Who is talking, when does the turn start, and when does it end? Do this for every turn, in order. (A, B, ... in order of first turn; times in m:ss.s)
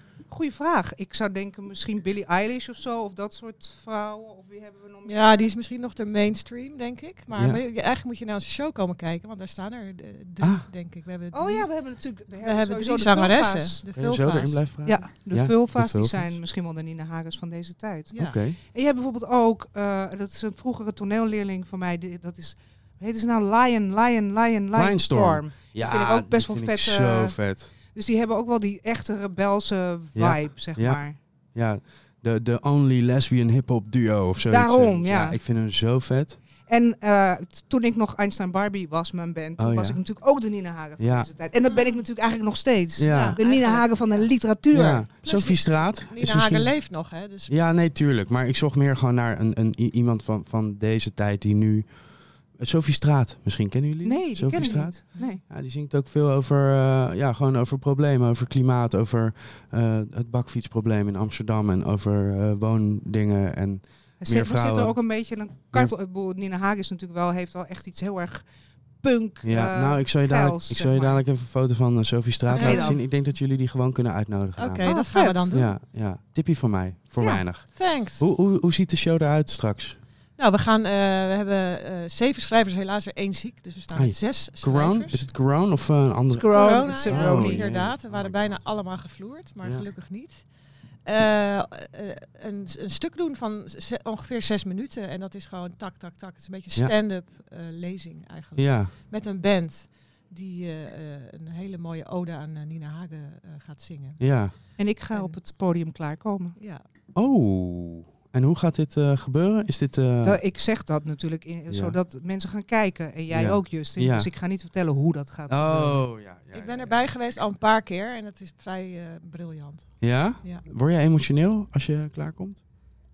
0:00.3-0:05.5 A
0:05.0-0:11.7 B
0:07.3-0:07.6 C
0:10.4-0:10.6 C
0:11.3-0:13.8 A
0:12.4-0:14.7 B
0:13.9-0:16.4 C
0:14.8-0:31.1 A
0:18.2-0:18.6 C
0:24.7-0:27.7 C
0:30.1-0:31.0 C
0:31.5-0:36.4 C
0:34.5-0:35.4 A
0:36.7-0:45.1 A
0:39.6-0:40.0 C
0:41.0-0:41.3 C
0:43.0-0:43.4 C
0:43.0-0:44.3 B
0:44.7-0:46.9 C
0:45.1-0:47.6 B
0:47.5-0:51.8 C
0:52.6-1:05.0 C
0:54.0-0:55.4 A
1:04.2-1:08.4 A
1:09.0-1:11.2 A
1:09.4-1:14.9 C
1:12.5-1:13.0 A
1:12.5-1:13.0 B
1:14.6-1:15.7 B
1:14.8-1:15.6 A
1:15.5-1:20.0 C
1:17.2-1:18.2 B
1:20.4-1:25.3 B
1:23.9-1:28.7 C
1:26.4-1:27.7 A
1:26.4-1:30.5 B
1:31.0-1:44.2 B
1:38.6-1:38.9 C
1:44.2-1:44.5 C
1:44.8-1:46.6 A
1:45.1-1:45.4 B
1:46.6-1:46.8 B
1:47.1-1:50.4 C
1:50.2-1:56.0 A
1:51.7-1:51.9 C
1:53.3-1:54.3 C
1:55.5-1:57.0 C
1:56.5-2:00.6 B
2:00.0-2:02.6 C